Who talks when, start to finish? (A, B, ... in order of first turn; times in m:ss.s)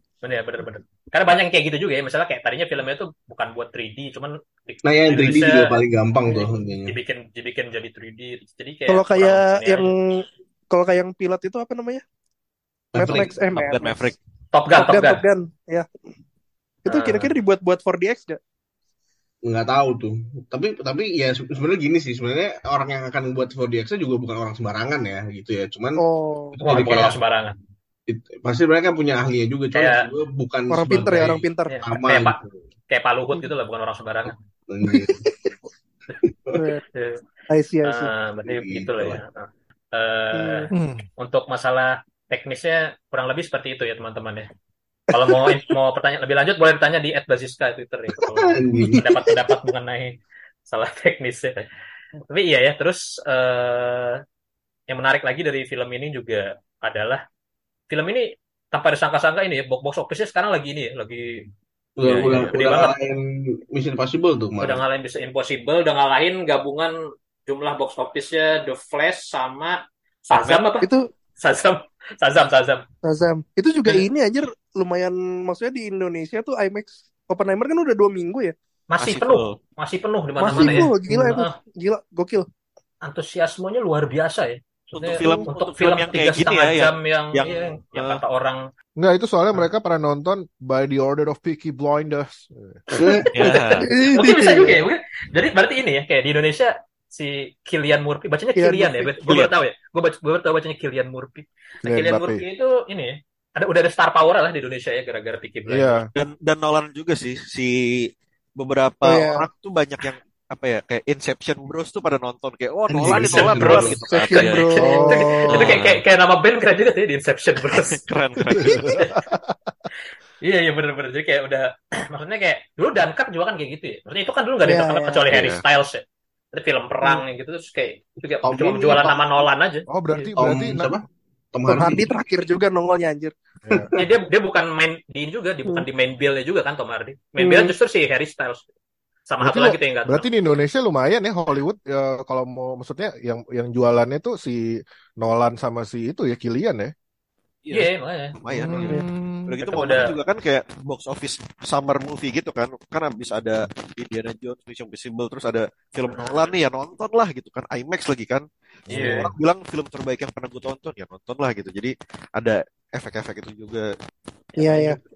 0:00.2-0:05.8 A
0:04.8-0:07.0 B
0:06.9-0:09.9 A
0:08.9-0:12.0 C
0:12.9-0:13.3 B
0:13.0-0:14.1 C
0:13.1-0:14.2 D
0:14.5-0:15.2 A
0:14.7-0:15.9 C
0:16.8-0:18.4 C
0:16.9-0:17.3 A
0:19.5-0:26.0 B
0:26.0-0:26.6 C
0:26.6-0:27.2 B
0:26.6-0:27.6 A
0:28.1-0:32.6 B
0:29.7-0:30.0 A
0:30.7-0:31.8 C
0:30.9-0:34.4 A
0:34.7-0:35.3 B
0:35.0-0:35.5 C
0:36.2-0:36.7 B
0:36.6-0:36.8 C
0:36.9-0:37.2 A
0:37.5-0:38.1 C
0:37.9-0:44.5 A
0:38.4-0:39.2 B
0:40.3-0:40.7 C
0:40.7-0:41.0 E
0:45.1-0:50.2 A
0:45.1-0:45.6 C
0:48.3-0:49.3 B
0:50.7-0:51.5 A
0:52.3-0:54.2 A
0:54.9-0:57.2 A
0:57.9-1:01.4 A
1:02.0-1:04.8 B
1:02.1-1:02.5 D
1:02.1-1:03.0 A
1:04.6-1:06.9 A
1:07.5-1:09.8 A
1:10.3-1:10.9 A
1:10.3-1:11.1 C
1:11.4-1:12.8 A
1:13.0-1:18.6 C
1:18.9-1:21.6 A
1:19.0-1:19.6 D
1:20.4-1:22.5 C
1:23.0-1:28.6 A
1:24.9-1:28.2 D
1:25.2-1:25.5 C
1:29.0-1:33.0 E
1:32.9-1:33.3 B
1:33.3-1:33.9 D
1:33.4-1:46.0 A
1:33.8-1:34.8 C
1:38.6-1:39.2 C
1:39.3-1:39.5 D
1:41.8-1:42.4 E
1:45.7-1:46.0 E
1:46.2-1:48.1 D
1:48.6-1:54.9 D
1:49.0-1:49.5 C
1:52.9-1:54.0 B
1:53.3-1:59.2 A
1:54.1-1:55.7 C
1:54.8-1:55.7 E
1:55.5-1:56.0 D
1:57.7-1:59.0 D
1:58.5-1:59.6 E
2:00.4-2:10.4 A
2:04.6-2:05.3 C
2:05.3-2:05.6 D
2:08.4-2:09.2 B
2:09.9-2:11.0 E
2:10.4-2:11.0 B
2:11.5-2:12.1 B
2:11.7-2:13.3 C
2:13.7-2:14.1 B
2:14.0-2:18.6 A
2:17.4-2:17.7 C
2:19.3-2:20.3 A
2:19.4-2:26.9 E
2:27.6-2:43.9 D
2:27.7-2:28.4 A
2:28.5-2:29.6 E
2:29.6-2:30.2 A
2:36.1-2:36.5 A
2:38.9-2:39.3 A
2:44.6-2:45.0 C
2:44.6-2:44.9 D